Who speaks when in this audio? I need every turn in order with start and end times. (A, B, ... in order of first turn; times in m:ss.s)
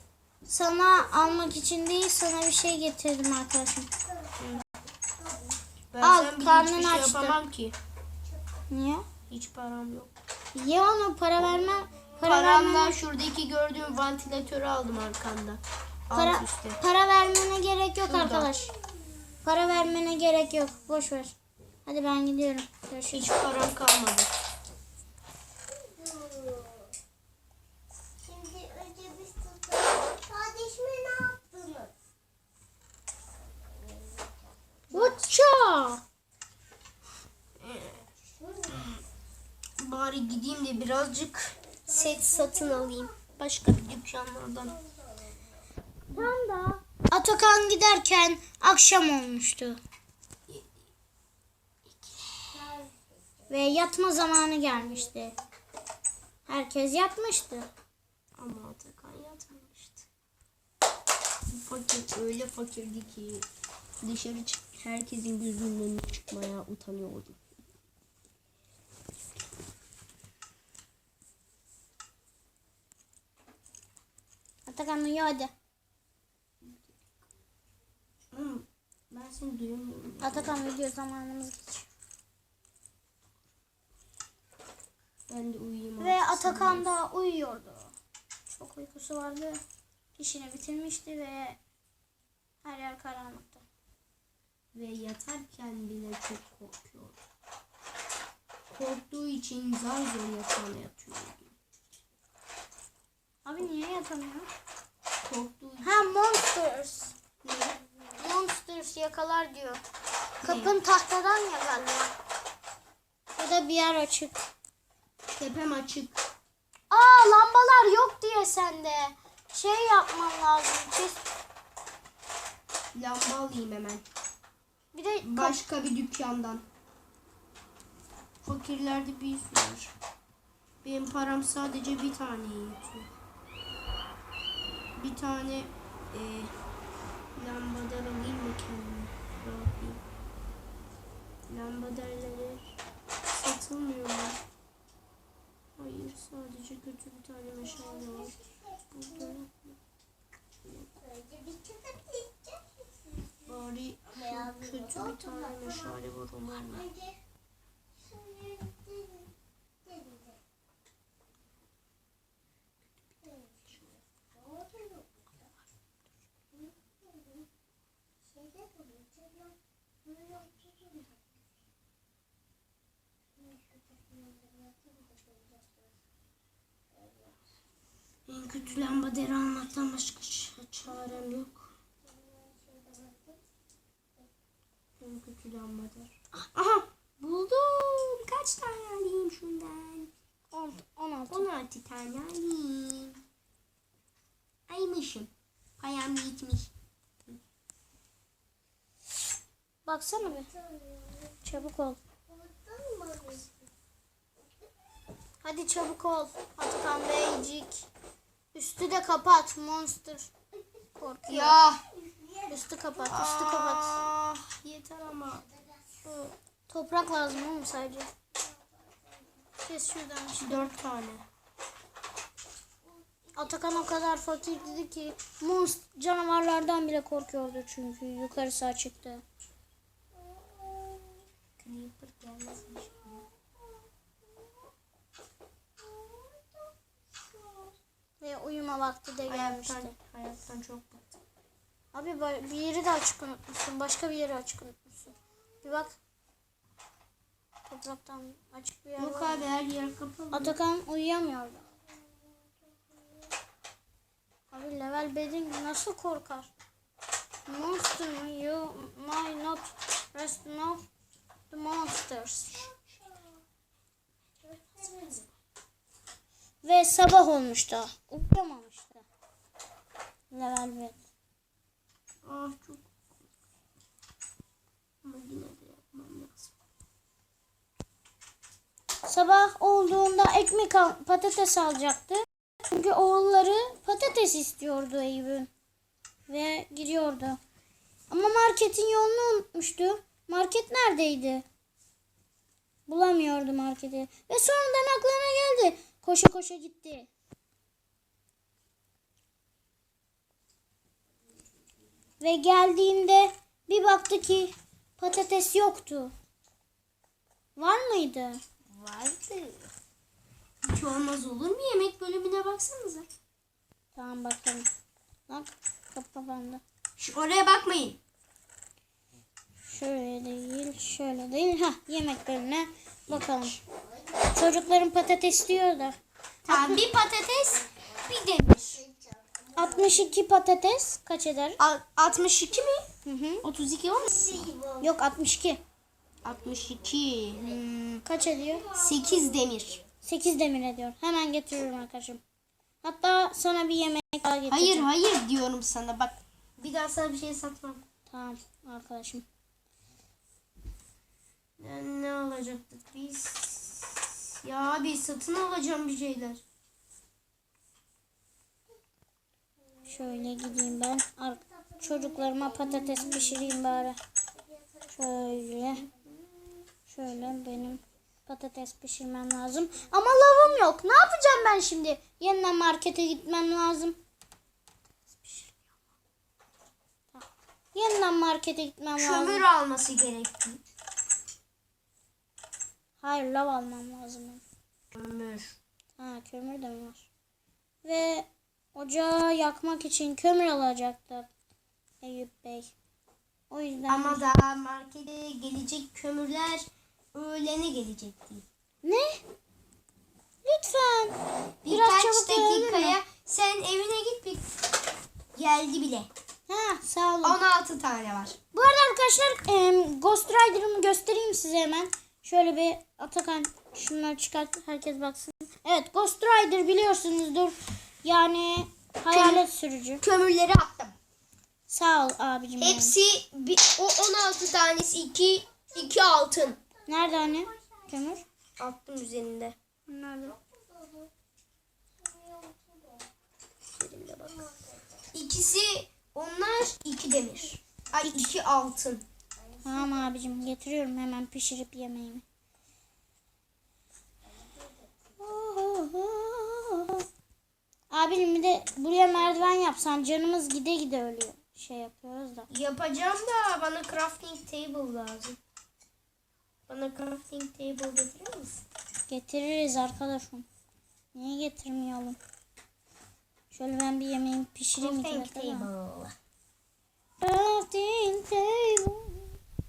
0:00.4-0:03.9 A
0:05.9-0:07.7 B
0:06.0-0:07.4 A
0:08.7-0:09.0 A
0:09.3-0:10.1 B
0:10.5-0:13.0 A
0:12.2-0:16.8 B
0:16.1-0:18.7 A
0:18.0-0:18.5 B
0:19.4-0:21.3 A
0:21.8-0:23.4 A
0:23.1-0:24.3 B
0:25.7-0:26.9 C
0:28.2-0:31.9 C
0:34.9-0:36.0 A
0:34.9-0:35.2 B
0:37.6-0:38.0 B
0:38.7-0:39.0 B
0:39.8-0:44.8 B
0:41.9-0:43.0 C
0:46.1-0:49.8 A
0:51.9-0:52.7 B
0:52.5-0:52.9 C
0:53.5-0:55.4 A
0:56.5-0:57.7 A
0:58.4-1:00.1 B
1:01.5-1:03.4 B
1:04.0-1:07.4 B
1:14.6-1:15.5 A
1:16.6-1:17.1 B
1:18.3-1:20.6 B
1:20.2-1:21.9 A
1:25.3-1:26.9 B
1:26.0-1:27.9 A
1:28.5-1:29.6 A
1:30.2-1:31.6 A
1:32.6-1:33.6 A
1:34.7-1:37.2 B
1:38.7-1:41.5 B
1:43.4-1:44.5 A
1:45.2-1:46.1 B
1:45.8-1:47.1 A
1:47.4-1:47.8 B
1:48.2-1:49.8 A
1:50.4-1:50.8 B
1:50.4-1:52.1 A
1:53.4-1:54.5 A
1:55.4-1:56.2 B
1:56.9-2:01.3 A
2:02.9-2:04.0 B
2:04.9-2:05.6 A
2:05.2-2:06.6 B
2:08.4-2:09.9 B
2:10.8-2:13.1 B
2:15.0-2:16.5 B
2:17.3-2:20.0 B
2:21.5-2:22.8 B
2:23.3-2:24.4 B
2:25.8-2:28.4 B
2:28.0-2:28.6 C
2:28.9-2:29.8 B
2:30.6-2:30.9 B
2:31.0-2:33.3 C
2:33.4-2:36.9 B
2:34.3-2:35.9 C
2:36.8-2:37.2 C
2:38.0-2:39.3 C
2:39.8-2:40.4 C
2:44.4-2:45.2 C
2:48.4-2:51.1 C
2:53.9-2:55.8 C
2:57.0-2:57.3 C
2:58.3-3:01.7 B
3:02.3-3:03.4 C
3:05.0-3:10.1 B
3:10.5-3:11.5 A
3:11.3-3:13.2 B
3:14.7-3:16.7 B
3:19.8-3:20.5 A
3:20.6-3:21.3 C
3:21.4-3:22.0 A
3:22.3-3:23.5 C
3:25.4-3:27.8 A
3:28.5-3:30.3 A
3:30.9-3:31.6 A
3:31.3-3:31.8 B
3:32.5-3:34.0 A
3:33.1-3:35.4 B
3:36.0-3:38.1 A
3:39.6-3:40.7 A
3:40.4-3:41.2 B
3:43.3-3:49.2 A
3:50.3-3:51.2 C
3:51.6-3:53.2 B
3:56.0-3:56.6 C
3:57.5-3:57.7 C
3:58.2-3:59.9 A
3:59.3-4:01.2 B
4:01.9-4:06.0 A
4:07.7-4:09.4 A
4:09.0-4:10.5 B
4:10.3-4:11.7 A
4:14.5-4:16.5 A
4:17.5-4:20.8 A
4:21.5-4:22.6 A
4:22.7-4:23.2 B
4:26.6-4:29.0 A
4:30.3-4:31.0 A
4:32.2-4:32.9 B
4:35.0-4:36.5 B
4:39.0-4:45.5 A
4:46.3-4:47.4 A
4:48.1-4:51.4 A
4:52.9-4:57.1 A
5:02.2-5:06.1 A
5:07.6-5:08.4 A
5:08.7-5:09.7 B
5:10.6-5:13.1 B
5:13.9-5:14.7 A
5:15.3-5:16.6 A
5:17.0-5:18.0 B
5:19.6-5:23.6 A
5:24.3-5:26.8 A
5:26.5-5:28.8 B
5:29.5-5:31.6 A
5:31.6-5:32.9 B
5:33.0-5:33.4 A
5:33.4-5:34.5 B
5:34.8-5:35.6 A
5:36.2-5:38.0 B
5:38.0-5:38.7 A
5:38.7-5:39.8 B
5:40.0-5:42.2 A
5:42.8-5:44.9 A
5:44.5-5:47.8 B
5:48.1-5:49.2 A
5:51.6-5:56.4 B
5:59.8-6:04.0 A
6:04.9-6:05.9 A
6:06.8-6:14.0 A
6:15.1-6:15.6 A
6:17.1-6:19.4 A
6:19.0-6:20.6 B
6:23.0-6:24.4 A
6:24.9-6:25.6 B
6:26.0-6:27.1 A
6:27.8-6:31.3 A
6:32.0-6:32.7 A
6:33.5-6:34.2 A
6:33.9-6:38.4 B
6:38.8-6:39.2 A
6:40.4-6:43.0 A
6:41.6-6:44.4 B
6:45.3-6:46.1 B
6:46.5-6:47.4 A
6:47.2-6:48.4 B
6:48.5-7:00.0 A
6:59.1-6:59.4 B
7:00.0-7:00.9 B
7:01.7-7:02.9 A
7:02.6-7:06.6 B
7:06.9-7:08.2 A
7:08.6-7:09.6 B
7:09.9-7:10.4 A
7:10.8-7:11.1 C
7:12.0-7:13.0 C
7:13.7-7:14.5 B
7:15.1-7:19.0 B
7:19.6-7:22.2 A
7:25.2-7:27.0 A
7:27.9-7:32.5 A
7:32.5-7:35.4 B
7:36.7-7:38.5 B
7:39.1-7:40.5 A
7:41.1-7:42.2 A
7:43.5-7:45.7 A
7:44.8-7:46.1 B
7:47.2-7:49.4 A